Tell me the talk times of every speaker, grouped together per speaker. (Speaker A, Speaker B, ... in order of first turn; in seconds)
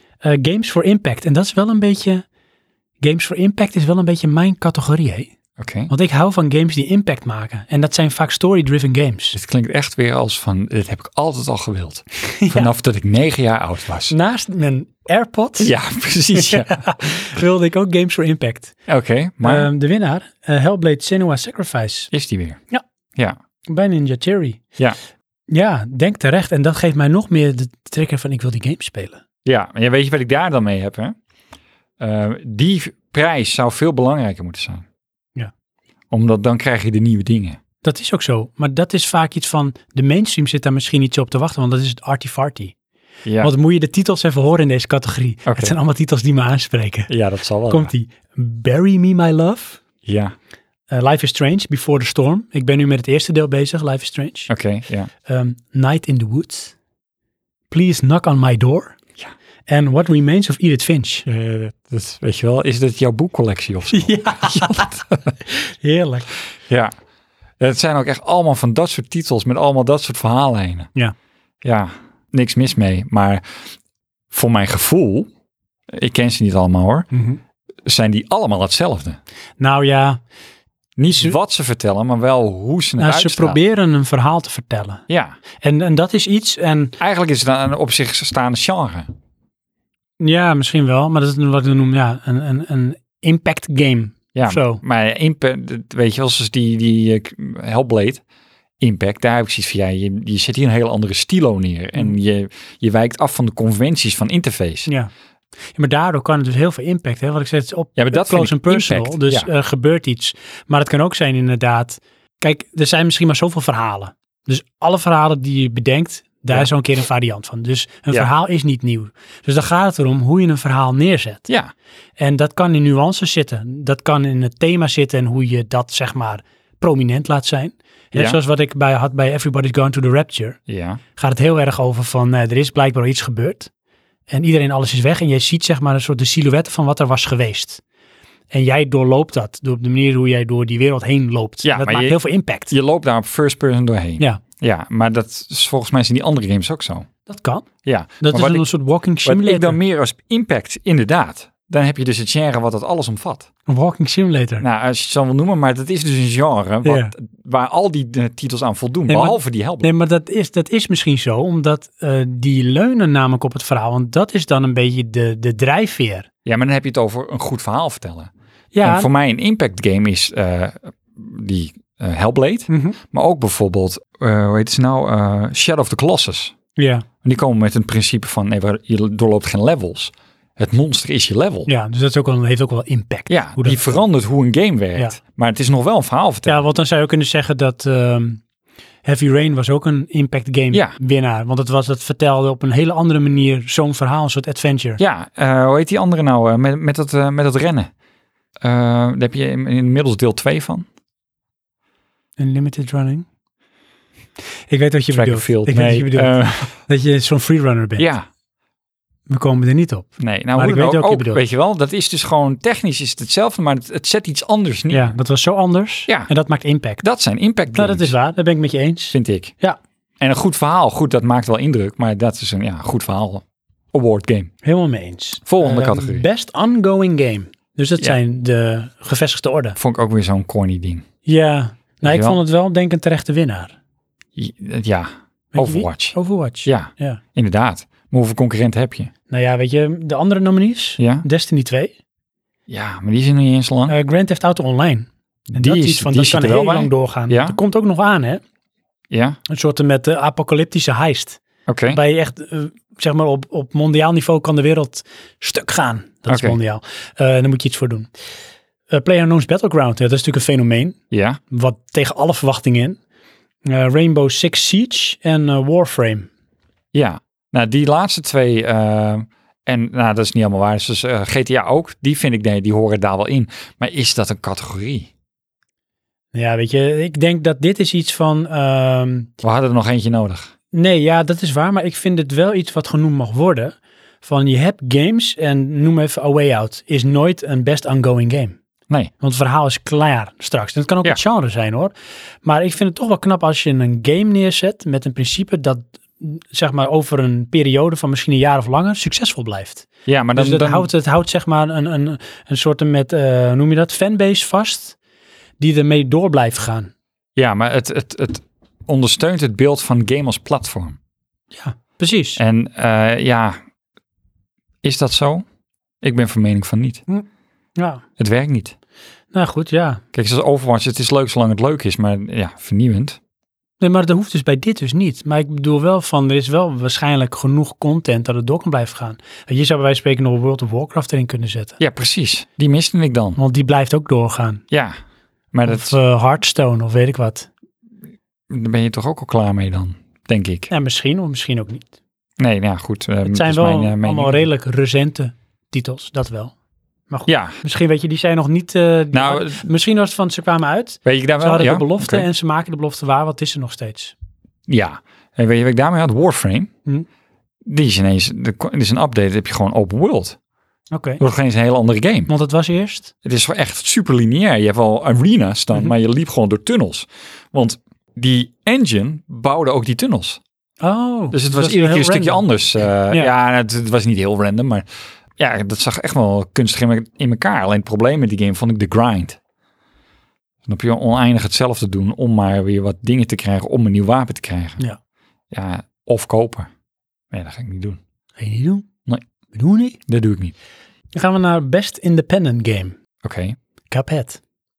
Speaker A: 0.2-2.2, 3.0-5.3, 5.9-9.3, 12.3-12.7, 14.1-15.7, 16.3-18.8, 19.4-22.1, 23.7-24.6, 25.5-29.2, 37.8-42.7, 43.4-47.1, 47.7-49.8, 50.9-54.5, 55.2-56.7, 57.7-59.0, 59.7-61.2, 63.9-66.3, 77.1-77.4, 79.6-80.2, 83.0-85.0, 85.6-87.0, 90.2-94.8, 104.8-105.1, 105.7-121.5, 122.2-130.6, 131.2-133.7, 134.3-137.8, 138.5-142.7, 147.2-147.7, 148.2-149.8, 153.7-154.6, 156.8-157.1, 159.1-166.3, 168.7-169.1, 172.7-173.0, 176.8-177.1, 181.7-184.0, 186.4-188.4, 189.0-195.0, 202.4-203.2, 204.7-208.1, 209.3-211.4, 214.9-217.0, 217.7-219.8, 224.6-229.8, 231.2-233.8, 235.5-237.2, 239.3-241.9, 243.9-248.4, 249.5-258.1, 258.9-261.0, 261.5-263.0, 263.6-266.3, 276.3-279.3, 280.7-288.6, 289.2-291.9, 292.4-304.9, 305.6-306.9, 311.5-312.4, 317.1-318.0, 319.3-320.0, 323.8-331.8, 333.4-334.6, 335.6-337.5, 340.7-341.9, 343.2-346.5, 347.1-354.1, 360.9-361.2, 362.3-363.1, 370.8-372.4, 388.4-388.9, 389.5-390.0, 391.1-392.9, 393.9-394.4
Speaker B: 5.6-5.9, 9.3-14.1, 15.6-16.9, 18.9-19.7, 22.1-22.6, 29.4-31.1, 32.0-34.8, 36.1-37.6, 43.2-43.5, 45.5-45.7, 47.1-47.9, 50.0-50.3, 54.5-55.1, 61.2-65.3, 66.7-66.9, 67.6-70.9, 71.6-73.6, 74.3-75.3, 75.9-77.1, 77.8-79.2, 81.0-83.6, 85.1-85.4, 87.0-89.1, 94.3-98.2, 98.8-104.9, 108.0-109.5, 130.7-131.0, 141.6-142.2, 142.7-147.1, 147.8-148.7, 149.2-153.5, 154.6-159.9, 166.4-168.3, 168.8-176.5, 177.2-181.7, 183.3-186.6, 195.0-197.9, 198.6-200.8, 205.1-206.7, 208.0-208.3, 210.2-215.1, 217.0-218.1, 219.1-219.5, 220.2-224.5, 225.4-226.2, 229.8-231.0, 232.0-232.4, 234.3-239.1, 241.0-241.2, 242.7-243.9, 245.5-247.6, 249.1-249.4, 251.7-252.0, 256.3-256.6, 261.1-261.4, 266.9-275.1, 279.4-280.5, 300.1-300.9, 307.4-311.0, 312.4-313.6, 314.8-315.4, 316.0-317.0, 318.2-318.7, 320.1-323.2, 331.8-333.4, 335.5-336.0, 338.5-340.7, 342.4-344.4, 347.3-347.6, 349.1-349.6, 351.1-352.3, 354.7-356.7, 357.6-360.4, 361.2-362.3, 363.2-370.4, 371.3-374.9, 375.4-379.4, 380.6-384.8, 385.5-386.7, 387.3-388.0, 390.1-390.5, 393.2-393.6